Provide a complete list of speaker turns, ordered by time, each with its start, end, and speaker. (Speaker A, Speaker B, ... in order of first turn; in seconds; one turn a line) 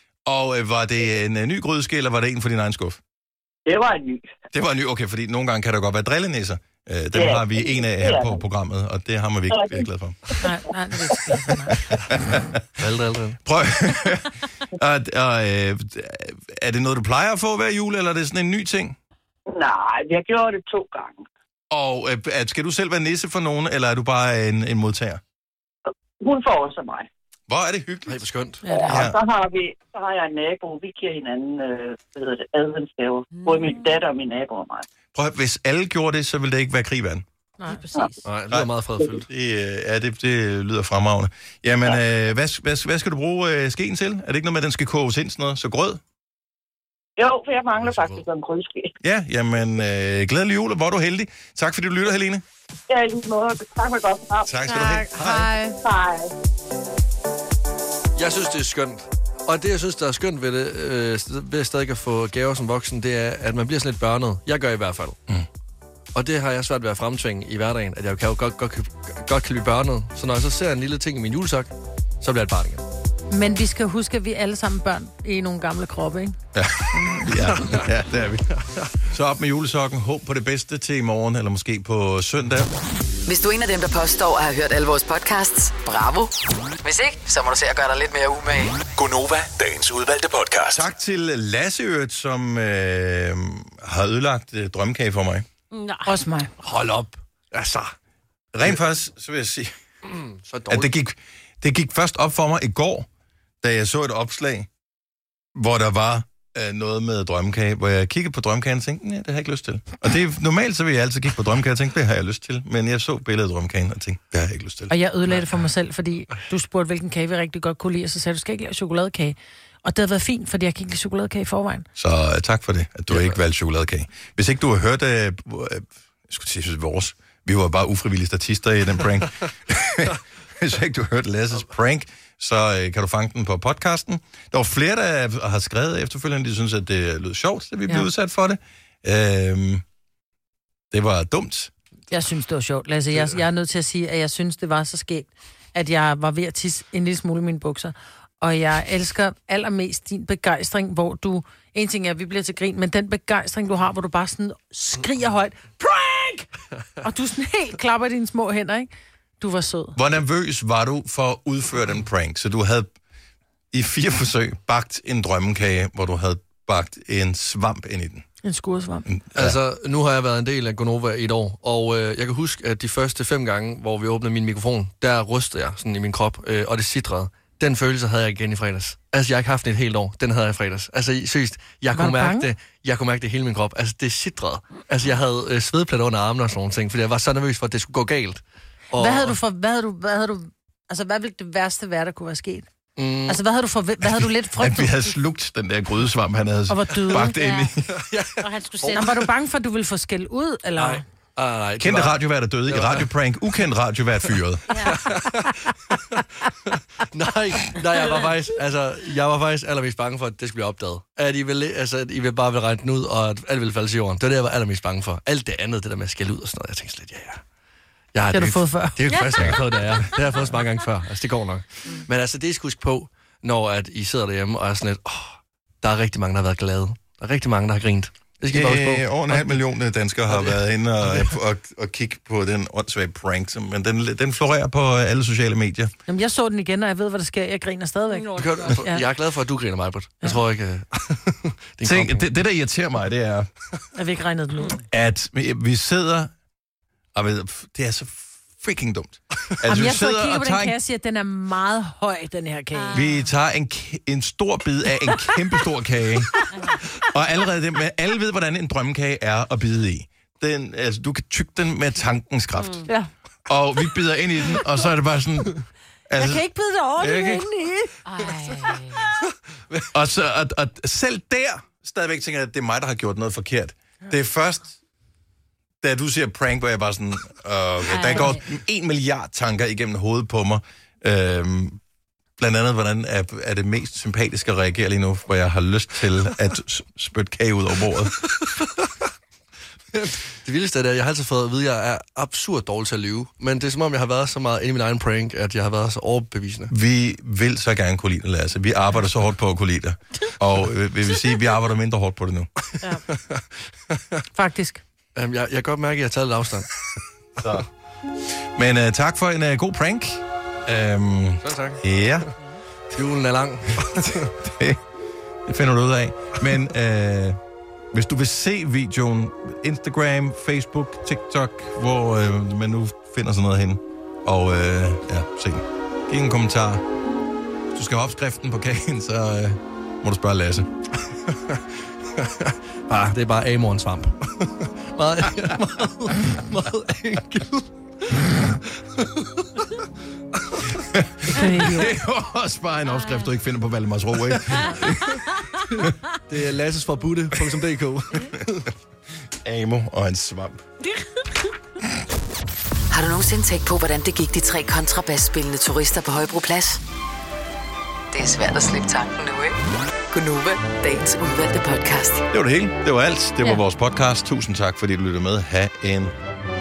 Speaker A: 0.2-3.0
Speaker B: 3.6-4.3
Speaker A: 4.5-10.2
Speaker B: 7.1-8.4
Speaker B: 9.5-9.9
Speaker C: 10.4-11.8
Speaker A: 12.1-12.4
Speaker D: 12.8-13.4
Speaker A: 13.4-19.0
Speaker B: 19.5-21.2
Speaker A: 21.7-25.2
Speaker B: 26.2-27.1
Speaker A: 27.5-28.3
Speaker D: 28.1-28.7
Speaker C: 28.6-29.0
Speaker B: 28.7-34.9
Speaker A: 28.8-29.2
Speaker E: 33.3-33.8
Speaker A: 35.1-37.2
Speaker C: 37.6-38.1
Speaker B: 37.9-38.2
Speaker D: 38.2-39.3
Speaker A: 39.2-46.0
Speaker B: 47.2-48.9
Speaker D: 47.7-48.3
Speaker A: 49.0-52.4
Speaker B: 52.9-54.5
Speaker A: 54.5-55.5
Speaker C: 54.6-55.8
Speaker B: 55.8-56.3
Speaker D: 58.1-65.2
Speaker D: 66.1-72.8
Speaker C: 73.3-76.3
Speaker A: 76.5-82.7
Speaker D: 77.2-77.9
Speaker D: 78.6-78.9
Speaker F: 83.2-88.8
Speaker G: 88.9-90.9
Speaker A: 90.7-95.5
Speaker E: 95.7-96.1
Speaker C: 96.0-96.5
Speaker D: 96.6-97.9
Speaker A: 98.5-99.7
Speaker D: 100.0-100.9
Speaker A: 100.7-103.1
Speaker A: 103.6-104.7
Speaker A: 105.5-114.9
Speaker C: 114.9-121.9
Speaker A: 122.0-139.8
Speaker A: 140.9-141.7
Speaker C: 142.1-156.5
Speaker C: 157.0-158.9
Speaker C: 159.4-160.0
Speaker A: 159.9-162.9
Speaker A: 163.7-168.2
Speaker C: 168.4-169.1
Speaker A: 169.1-169.6
Speaker D: 169.3-189.4
Speaker C: 181.9-182.5
Speaker C: 189.0-192.7
Speaker D: 192.9-193.4
Speaker C: 193.2-195.0
Speaker A: 194.6-197.9
Speaker C: 196.7-197.3
Speaker E: 197.2-197.7
Speaker D: 197.9-199.3
Speaker E: 198.4-199.2
Speaker C: 198.9-201.0
Speaker D: 200.8-203.1
Speaker A: 201.8-204.9
Speaker E: 204.7-205.0
Speaker D: 204.9-217.4
Speaker D: 218.1-229.6
Speaker C: 218.3-219.1
Speaker E: 219.1-220.5
Speaker A: 228.5-235.9
Speaker D: 230.3-231.3
Speaker C: 236.1-239.0
Speaker E: 238.1-238.8
Speaker D: 238.3-242.2
Speaker A: 241.8-243.5
Speaker C: 243.9-244.8
Speaker A: 244.9-246.3
Speaker A: 247.1-250.8
Speaker C: 249.6-253.0
Speaker E: 252.7-253.3
Speaker A: 252.9-256.4
Speaker E: 256.5-256.8
Speaker A: 257.1-262.8
Speaker E: 262.6-262.9
Speaker A: 263.5-265.6
Speaker A: 266.1-266.4
Speaker C: 266.2-267.9
Speaker D: 267.1-267.4
Speaker E: 268.0-269.0
Speaker D: 268.7-269.9
Speaker A: 269.9-274.7
Speaker A: 275.8-281.8
Speaker E: 277.9-278.4
Speaker A: 282.4-288.2
Speaker D: 288.3-288.9
Speaker D: 289.9-296.7
Speaker A: 296.7-302.5
Speaker D: 303.1-304.2
Speaker C: 304.3-304.8
Speaker D: 305.1-306.7
Speaker A: 307.4-307.6
Speaker A: 308.6-312.3
Speaker D: 311.4-311.8
Speaker D: 312.9-314.3
Speaker A: 313.8-314.8
Speaker A: 315.4-317.4
Speaker A: 317.9-326.9
Speaker A: 327.7-330.7
Speaker D: 331.3-331.6
Speaker D: 332.2-339.8
Speaker D: 340.4-340.8
Speaker A: 340.9-345.2
Speaker C: 341.3-341.9
Speaker E: 342.9-343.3
Speaker D: 345.8-348.7
Speaker A: 349.4-350.6
Speaker F: 352.9-356.8
Speaker F: 358.1-359.6
Speaker F: 360.1-362.2
Speaker A: 362.3-366.1